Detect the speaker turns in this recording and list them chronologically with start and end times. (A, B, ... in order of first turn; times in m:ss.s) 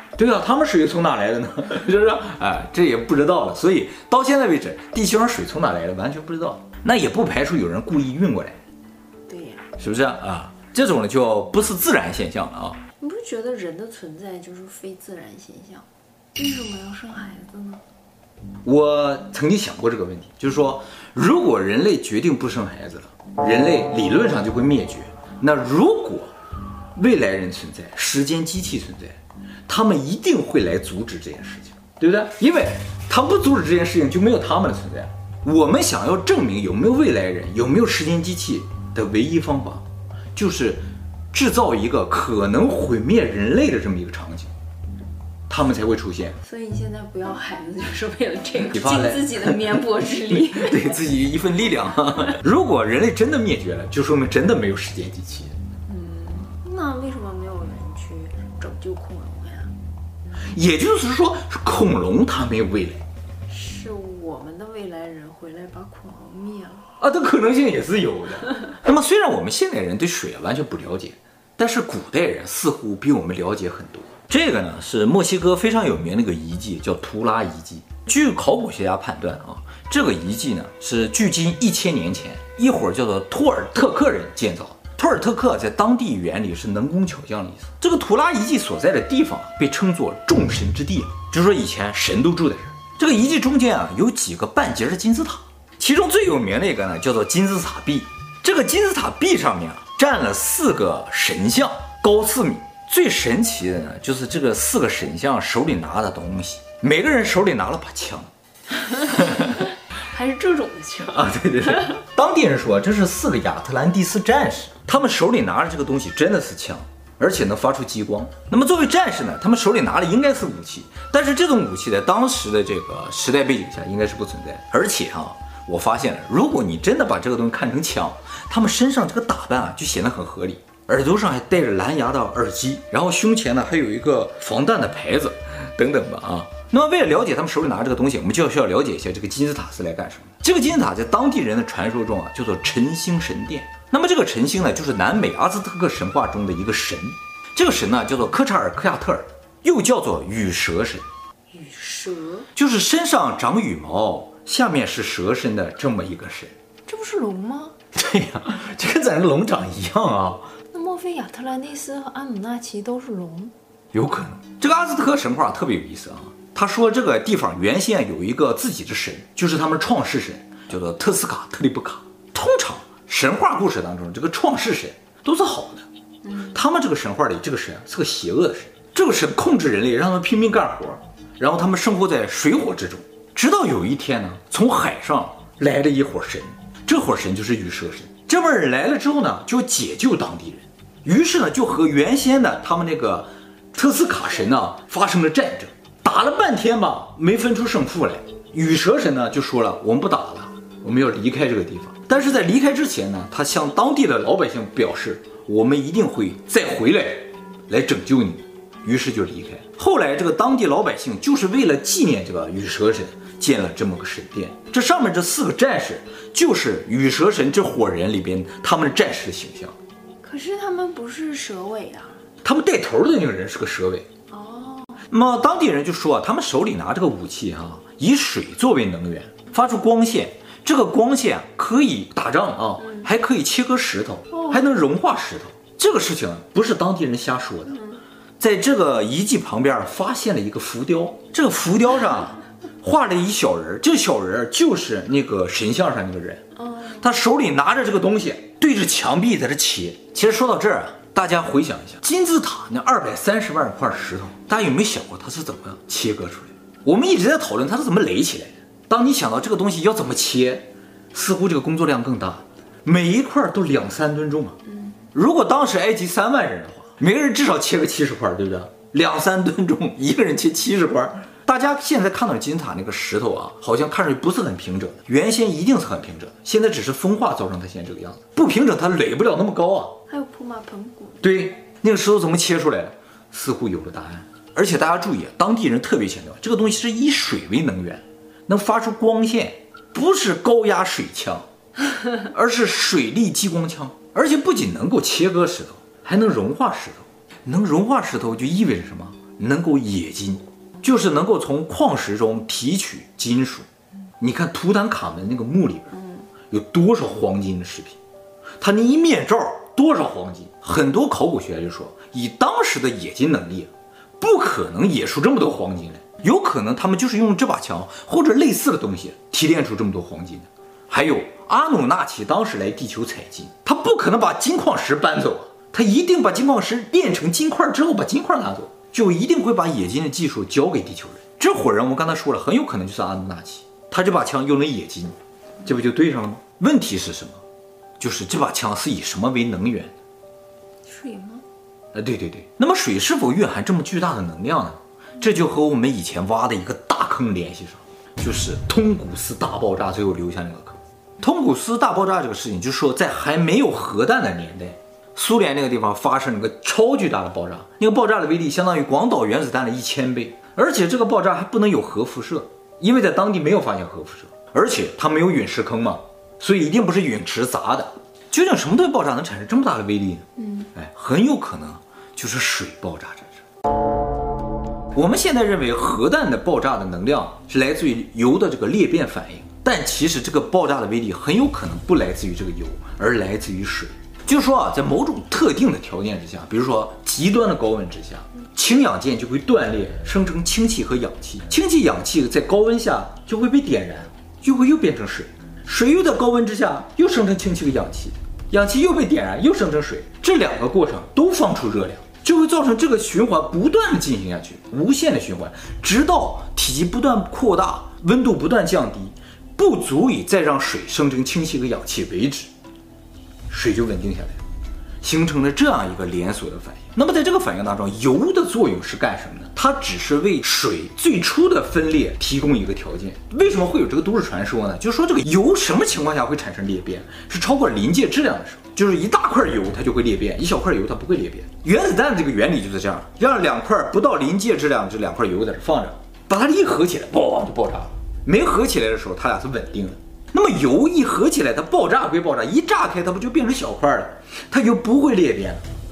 0:00.2-0:08.6 A
0:09.3-0:09.7 B
0:09.8-0:12.8 A
0:13.0-0:17.8 B
0:18.6-0:26.3 A
0:26.9-0:44.5 A
0:45.5-0:46.4 A
0:46.4-0:51.0 B
0:48.6-0:55.6 A
0:55.9-0:59.8 B
1:00.5-1:03.0 A
1:03.5-1:06.9 B
1:07.0-1:48.3 A
1:48.8-1:51.9 B
1:49.0-1:49.6 A
1:51.1-2:31.1 A
2:31.5-2:32.5 B
2:32.5-2:36.5 A
2:36.9-2:37.8 B
2:37.9-2:40.5 A
2:40.7-2:43.5 B
2:43.9-2:55.8 A
2:56.2-2:56.6 B
2:56.5-3:39.7 A
3:40.2-3:42.2 B
3:42.4-3:44.0 A
3:44.3-3:45.0 B
3:45.1-3:57.8 A
3:52.8-3:53.1 B
3:54.3-3:54.7 B
3:57.6-3:58.0 B
3:58.4-4:06.4 A
4:06.6-4:07.1 B
4:07.0-4:24.6 A
4:24.7-4:25.0 B
4:25.1-4:40.0 A
4:40.1-4:41.2 B
4:41.2-4:51.4 A
4:52.2-5:03.7 A
5:04.2-5:08.0 A
5:08.6-5:37.4 A
5:38.0-5:39.9 A
5:40.8-5:41.4 B
5:41.9-6:13.4 A
6:10.4-6:10.7 B
6:14.9-6:52.5 A
6:53.5-6:54.4 A
6:55.0-7:25.6 A